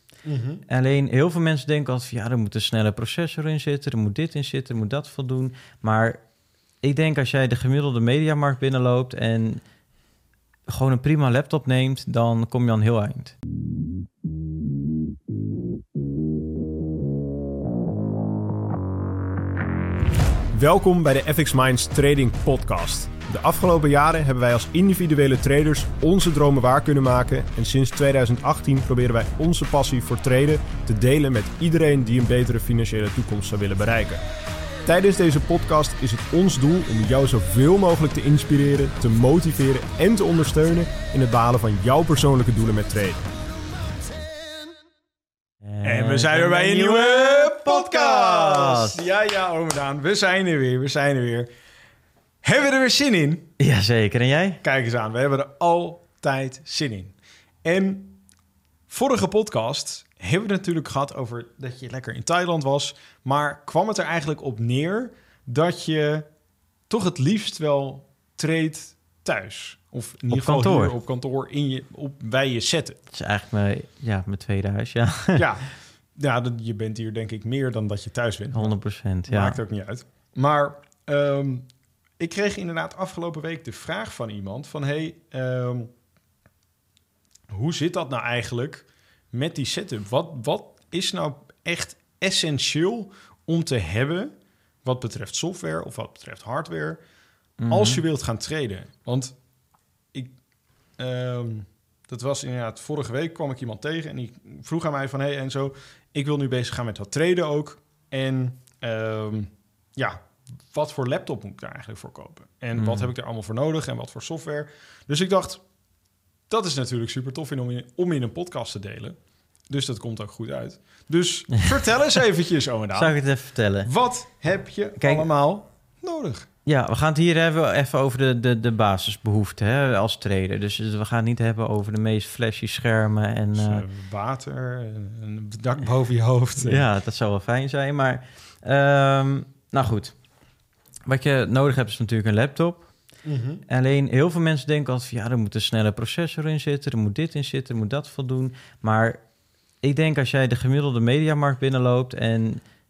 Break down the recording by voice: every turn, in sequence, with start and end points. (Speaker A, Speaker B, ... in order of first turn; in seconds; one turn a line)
Speaker A: 0.2-0.6
Speaker B: 0.7-6.2
Speaker B: 6.8-9.6
Speaker B: 10.7-13.3
Speaker A: 20.5-34.2
Speaker A: 34.8-43.3
Speaker B: 45.6-49.0
Speaker A: 45.8-51.5
Speaker A: 52.4-53.5
Speaker B: 53.6-54.6
Speaker A: 54.6-58.2
Speaker A: 58.9-66.3
Speaker A: 66.9-73.0
Speaker B: 70.3-70.9
Speaker B: 73.1-75.5
Speaker A: 75.3-78.8
Speaker B: 78.5-79.6
Speaker A: 79.3-81.6
Speaker A: 82.2-85.9
Speaker A: 87.5-94.3
Speaker A: 94.8-97.0
Speaker B: 97.6-98.0
Speaker A: 97.7-99.3
Speaker A: 101.0-115.6
Speaker B: 112.8-113.1
Speaker A: 116.5-123.2
Speaker B: 122.9-123.9
Speaker A: 123.8-126.5
Speaker B: 125.0-125.3
Speaker B: 126.6-133.8
Speaker A: 133.5-136.8
Speaker B: 136.6-140.1
Speaker B: 141.1-142.9
Speaker A: 143.2-143.6
Speaker B: 143.7-149.2
Speaker B: 149.8-152.6